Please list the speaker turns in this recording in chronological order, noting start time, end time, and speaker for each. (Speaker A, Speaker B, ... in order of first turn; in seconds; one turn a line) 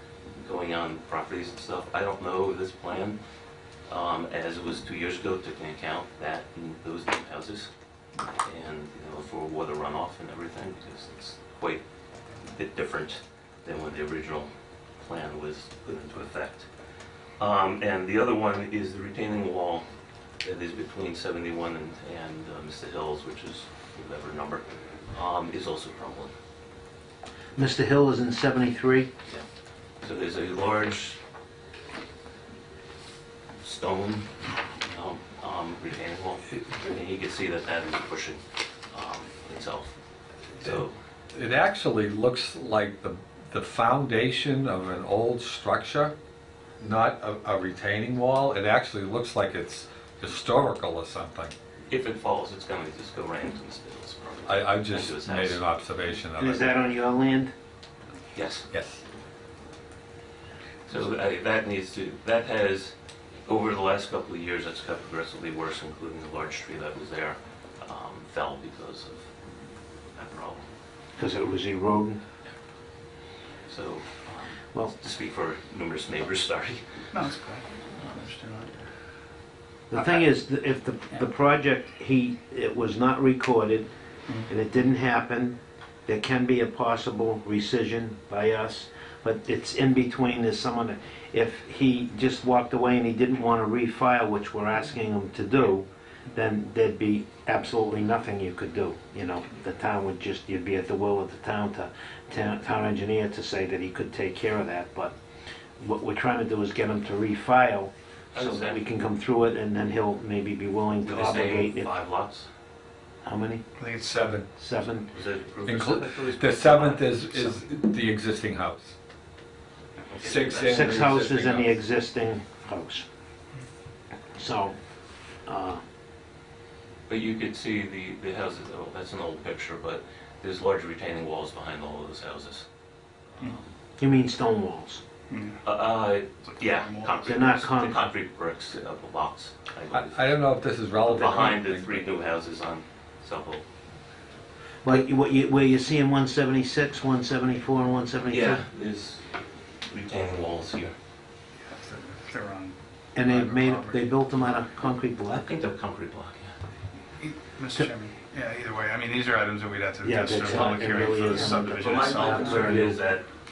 Speaker A: 0.4-3.2
Speaker A: 3.9-7.7
Speaker A: 8.4-11.8
Speaker A: 12.4-16.7
Speaker A: 17.4-19.9
Speaker A: 20.4-26.3
Speaker B: 27.6-29.1
Speaker A: 30.0-31.2
Speaker A: 33.6-39.9
Speaker A: 40.5-40.9
Speaker C: 41.3-46.1
Speaker C: 46.8-51.5
Speaker A: 51.9-55.6
Speaker C: 54.5-56.7
Speaker B: 56.4-57.5
Speaker A: 58.3-58.7
Speaker C: 58.7-59.0
Speaker A: 60.9-62.9
Speaker A: 63.5-69.3
Speaker A: 70.1-70.7
Speaker B: 71.2-72.2
Speaker A: 73.7-77.0
Speaker D: 77.1-78.9
Speaker B: 79.9-83.9
Speaker B: 84.5-105.1
Speaker B: 105.8-111.9
Speaker A: 108.3-108.8
Speaker A: 111.0-112.5
Speaker B: 113.2-113.6
Speaker D: 113.8-114.4
Speaker C: 114.1-114.5
Speaker B: 114.6-115.1
Speaker A: 115.1-117.6
Speaker C: 115.7-118.9
Speaker A: 120.1-121.1
Speaker C: 120.2-121.7
Speaker B: 120.7-123.0
Speaker B: 124.4-124.7
Speaker B: 125.5-125.8
Speaker A: 127.1-132.7
Speaker A: 133.4-133.7
Speaker B: 134.0-135.0
Speaker D: 135.3-135.6
Speaker A: 135.6-140.4
Speaker D: 136.5-137.3
Speaker B: 137.2-138.1
Speaker C: 139.9-142.0
Speaker A: 141.1-143.6
Speaker B: 144.8-148.6
Speaker A: 148.3-150.9
Speaker D: 151.7-154.0
Speaker B: 153.2-155.5
Speaker A: 155.3-156.6
Speaker D: 157.2-162.9
Speaker B: 160.0-162.9
Speaker A: 161.7-163.3